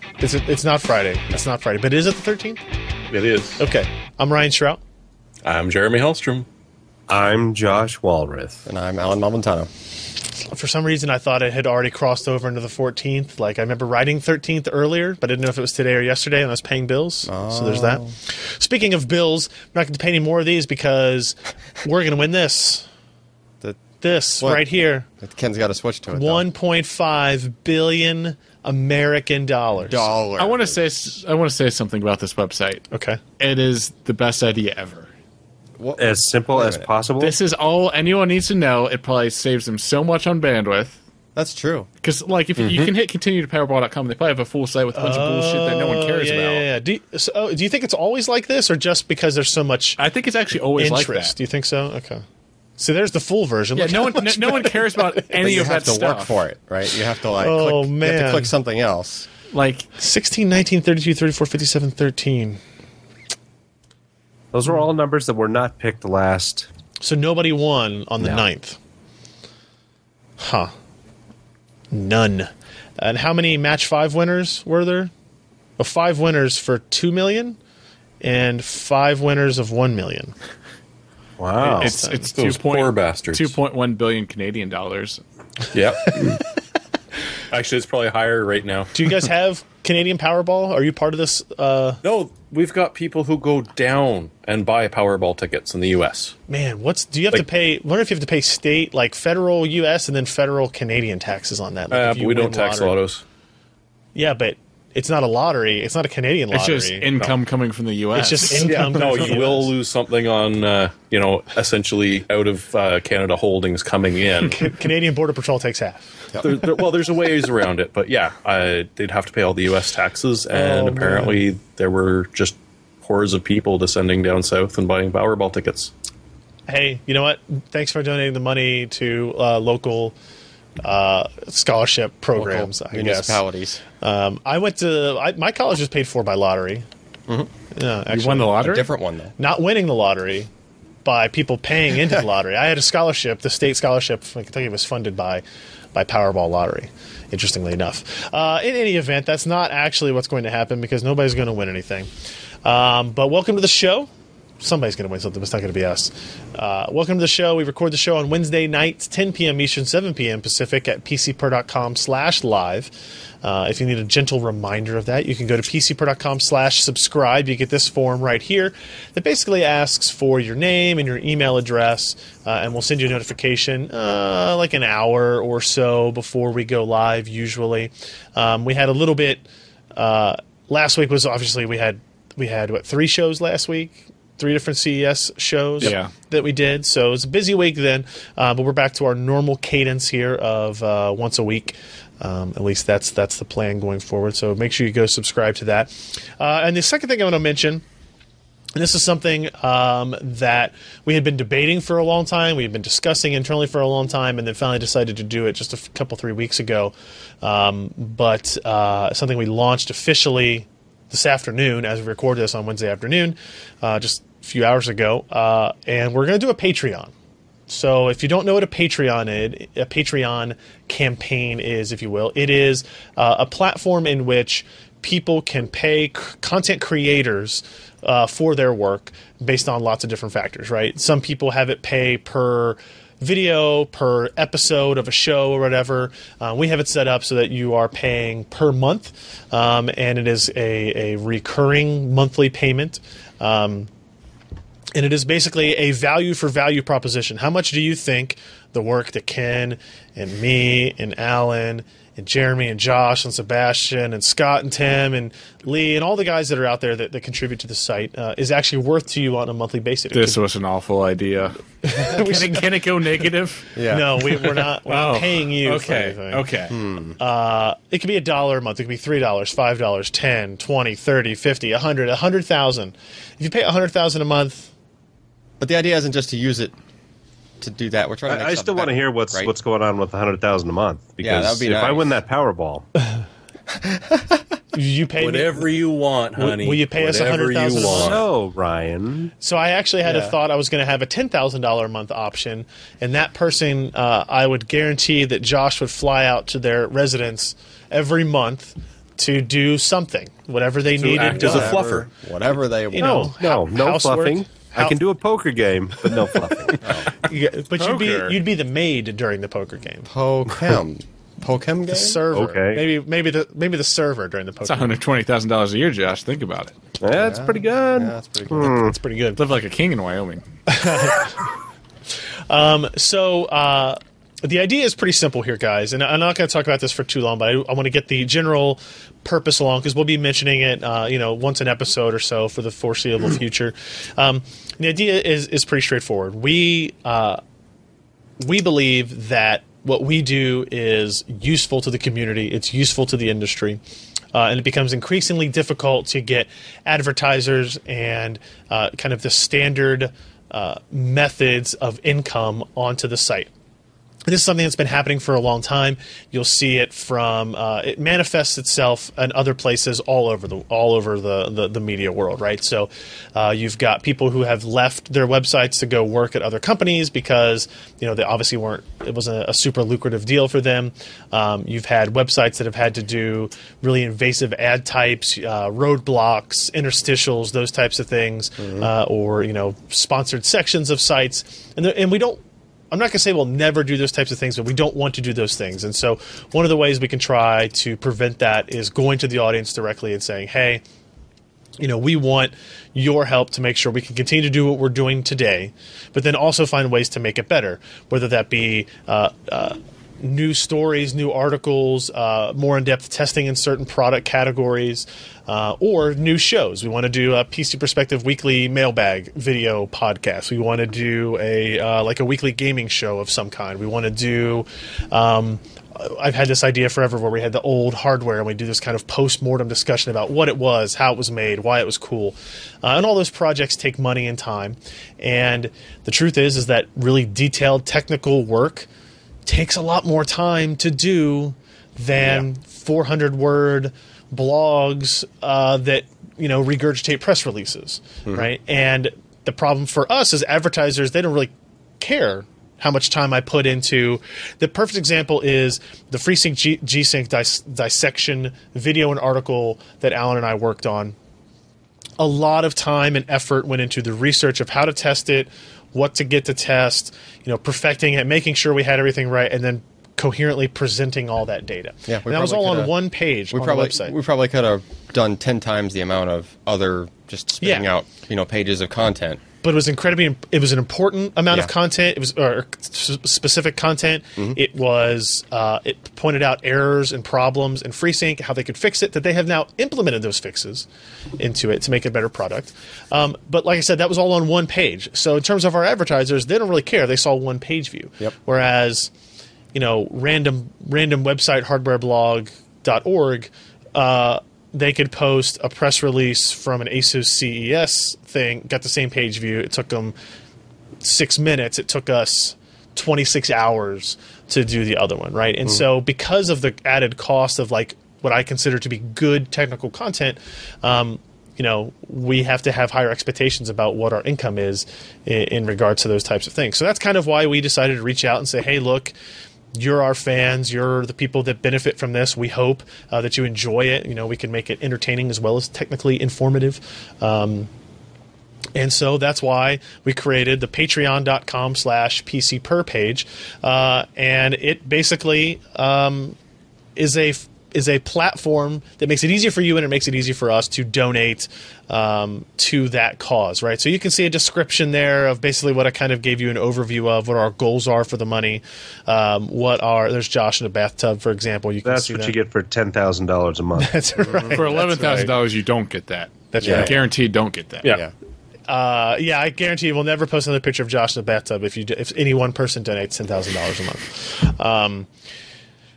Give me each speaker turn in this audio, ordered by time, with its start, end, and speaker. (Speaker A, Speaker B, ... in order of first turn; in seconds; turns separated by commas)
Speaker A: 0.2-2.6, Speaker B: 3.1-3.6, Speaker A: 3.6-4.8, Speaker B: 5.4-6.5, Speaker C: 7.1-8.6, Speaker D: 8.7-9.7, Speaker A: 10.5-22.9, Speaker D: 17.2-18.1, Speaker A: 24.0-25.1, Speaker D: 25.2-26.4, Speaker A: 26.1-30.1, Speaker D: 29.8-30.8, Speaker E: 30.4-32.8, Speaker A: 32.9-33.2, Speaker E: 33.4-35.1, Speaker D: 35.8-36.9, Speaker C: 36.0-37.4, Speaker E: 37.2-41.0, Speaker D: 41.3-41.9, Speaker E: 42.0-46.6, Speaker A: 44.9-50.0, Speaker E: 50.0-51.3, Speaker A: 50.8-52.2, Speaker A: 52.8-55.3, Speaker E: 53.7-56.4, Speaker D: 55.4-59.3, Speaker A: 57.4-58.5, Speaker E: 59.5-59.9, Speaker A: 60.0-62.6, Speaker C: 64.5-66.7, Speaker A: 67.0-68.8, Speaker A: 70.4-70.7, Speaker A: 71.9-75.1, Speaker A: 75.8-77.6, Speaker A: 78.2-80.3, Speaker C: 81.4-81.8, Speaker E: 81.6-85.2, Speaker A: 81.6-82.2, Speaker B: 81.7-83.5, Speaker B: 85.7-86.4, Speaker B: 87.5-89.0, Speaker A: 88.9-92.0, Speaker B: 92.0-96.3, Speaker A: 96.5-102.9, Speaker B: 101.9-103.2, Speaker A: 104.1-107.3, Speaker E: 106.5-109.3, Speaker A: 108.1-109.7, Speaker B: 108.6-114.6, Speaker A: 114.5-116.0, Speaker B: 116.4-125.9, Speaker A: 120.5-121.4, Speaker A: 126.7-130.1, Speaker A: 130.8-133.4, Speaker D: 132.3-133.8, Speaker A: 134.0-136.8, Speaker A: 137.7-138.8, Speaker E: 138.1-138.9, Speaker D: 138.6-139.3, Speaker A: 139.4-140.5, Speaker A: 141.0-145.4, Speaker A: 145.9-152.1, Speaker A: 152.6-154.1, Speaker A: 154.6-197.8, Speaker E: 185.8-186.1, Speaker A: 198.7-217.1, Speaker A: 217.7-243.9, Speaker A: 244.9-260.4, Speaker E: 260.1-263.7, Speaker A: 261.8-262.7, Speaker D: 263.7-264.1, Speaker A: 263.9-266.5, Speaker E: 264.3-266.8, Speaker D: 266.7-267.2, Speaker A: 267.2-274.7, Speaker D: 275.6-276.7, Speaker D: 277.6-279.5, Speaker C: 278.3-282.9, Speaker D: 281.2-282.1, Speaker D: 283.8-284.3, Speaker A: 284.7-285.6, Speaker B: 285.2-288.2, Speaker A: 286.4-288.2, Speaker C: 288.0-289.3, Speaker A: 289.4-301.9, Speaker D: 290.0-290.4, Speaker B: 301.0-302.1, Speaker D: 301.2-303.3, Speaker A: 302.9-305.0, Speaker C: 303.0-306.9, Speaker D: 306.7-307.1, Speaker A: 307.2-310.1, Speaker E: 307.7-308.4, Speaker D: 310.1-312.2, Speaker A: 311.9-315.0, Speaker C: 312.3-312.8, Speaker E: 314.6-316.8, Speaker C: 317.0-318.9, Speaker D: 317.1-318.8, Speaker A: 318.6-319.4, Speaker E: 319.4-320.4, Speaker A: 320.7-321.3, Speaker A: 322.5-337.4, Speaker A: 338.4-343.8, Speaker A: 344.3-353.5, Speaker A: 354.2-390.8, Speaker D: 378.6-378.9, Speaker A: 391.8-428.9, Speaker A: 429.4-451.1, Speaker A: 452.2-464.1, Speaker D: 462.1-463.0, Speaker D: 463.5-469.4, Speaker A: 467.6-467.9, Speaker A: 469.6-480.9, Speaker A: 481.4-489.1, Speaker A: 489.7-500.1, Speaker A: 501.0-519.1, Speaker A: 519.7-527.7, Speaker A: 528.7-536.4, Speaker A: 537.0-552.3, Speaker C: 551.8-554.0, Speaker A: 553.8-555.3, Speaker E: 554.5-558.0, Speaker A: 556.5-557.0, Speaker D: 556.6-556.9, Speaker D: 557.9-558.1, Speaker A: 558.7-565.1